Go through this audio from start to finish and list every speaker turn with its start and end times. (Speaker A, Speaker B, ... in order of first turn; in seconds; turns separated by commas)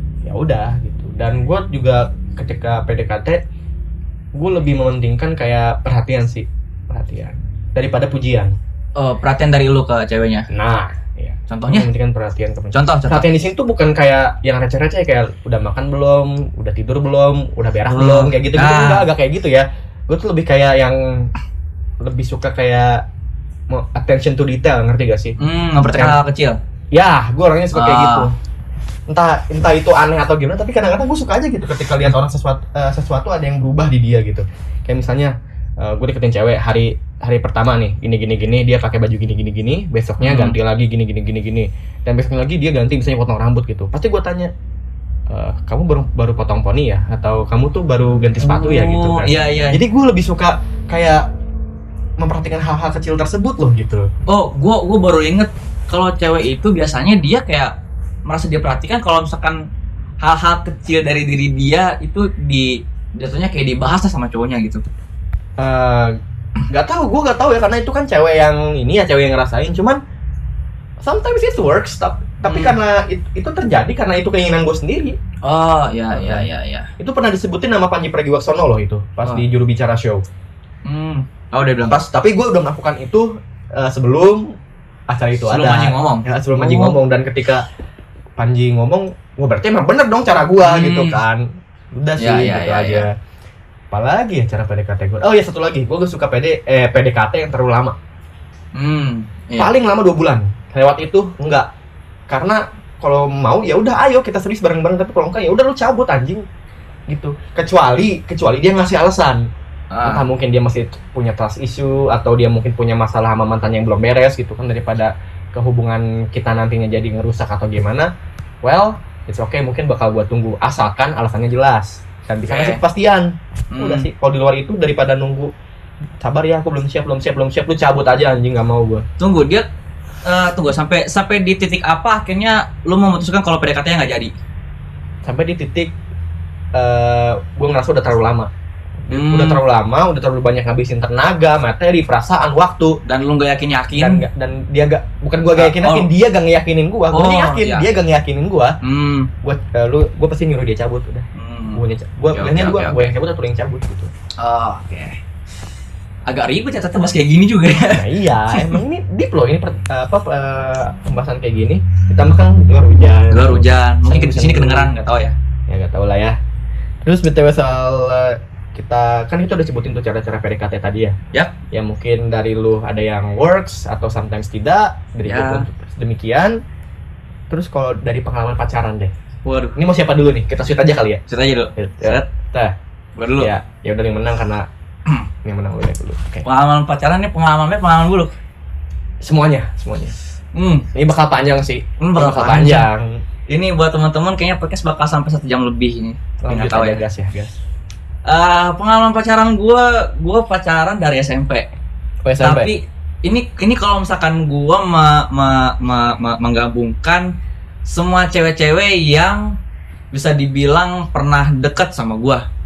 Speaker A: 0.2-3.4, Speaker A: 4.3-8.5, Speaker B: 8.9-10.5, Speaker A: 10.5-21.3, Speaker B: 11.5-11.9, Speaker B: 12.7-13.3, Speaker B: 17.9-19.1, Speaker A: 22.0-23.0, Speaker A: 23.7-26.2, Speaker B: 25.4-26.6, Speaker A: 26.9-28.3, Speaker B: 27.7-28.3, Speaker A: 29.1-44.5, Speaker B: 40.2-40.6, Speaker A: 45.3-51.2, Speaker B: 48.4-49.8, Speaker A: 52.2-54.1, Speaker B: 54.3-57.7, Speaker B: 58.2-59.6, Speaker B: 60.2-64.8, Speaker A: 65.6-66.2, Speaker A: 66.7-70.0, Speaker A: 71.0-75.2, Speaker B: 72.4-72.8, Speaker B: 75.4-76.9, Speaker A: 76.1-76.5, Speaker A: 77.0-80.2, Speaker B: 80.8-82.0, Speaker A: 81.9-84.5, Speaker A: 85.1-87.6, Speaker B: 85.5-87.0, Speaker A: 88.4-93.1, Speaker B: 90.6-91.2, Speaker B: 92.2-93.0, Speaker A: 93.9-98.0, Speaker B: 98.7-99.7, Speaker A: 99.6-101.7, Speaker A: 102.3-106.4, Speaker A: 107.1-109.5, Speaker B: 109.9-110.2, Speaker A: 110.0-118.1, Speaker A: 118.6-125.5, Speaker B: 122.5-122.8, Speaker B: 123.7-124.1, Speaker A: 126.2-129.0, Speaker B: 129.2-129.7, Speaker B: 130.2-134.3, Speaker A: 135.2-135.9, Speaker A: 136.7-138.5, Speaker A: 139.0-143.0, Speaker B: 139.1-139.6, Speaker B: 143.1-144.2, Speaker A: 143.9-148.8, Speaker B: 145.5-146.1, Speaker B: 147.1-147.9, Speaker B: 148.8-149.3, Speaker A: 149.4-154.1, Speaker B: 151.3-151.8, Speaker B: 152.3-153.0, Speaker B: 154.4-155.2, Speaker B: 156.3-158.8, Speaker A: 157.8-164.9, Speaker B: 163.3-165.3, Speaker A: 165.7-166.3, Speaker A: 167.0-171.2, Speaker A: 171.7-176.6, Speaker B: 175.2-175.7, Speaker A: 177.5-179.1, Speaker B: 179.4-179.8, Speaker A: 179.7-181.2, Speaker B: 181.3-182.2, Speaker A: 181.8-182.7, Speaker B: 183.2-183.5, Speaker A: 183.4-184.7, Speaker A: 185.4-186.4, Speaker B: 186.4-188.3, Speaker A: 189.2-190.1, Speaker B: 190.5-190.8, Speaker A: 190.9-193.2, Speaker B: 192.0-192.9, Speaker B: 193.5-197.0, Speaker A: 196.4-197.5, Speaker B: 198.3-201.7, Speaker A: 202.2-202.7, Speaker B: 202.4-207.3, Speaker B: 207.9-209.5, Speaker B: 210.1-212.4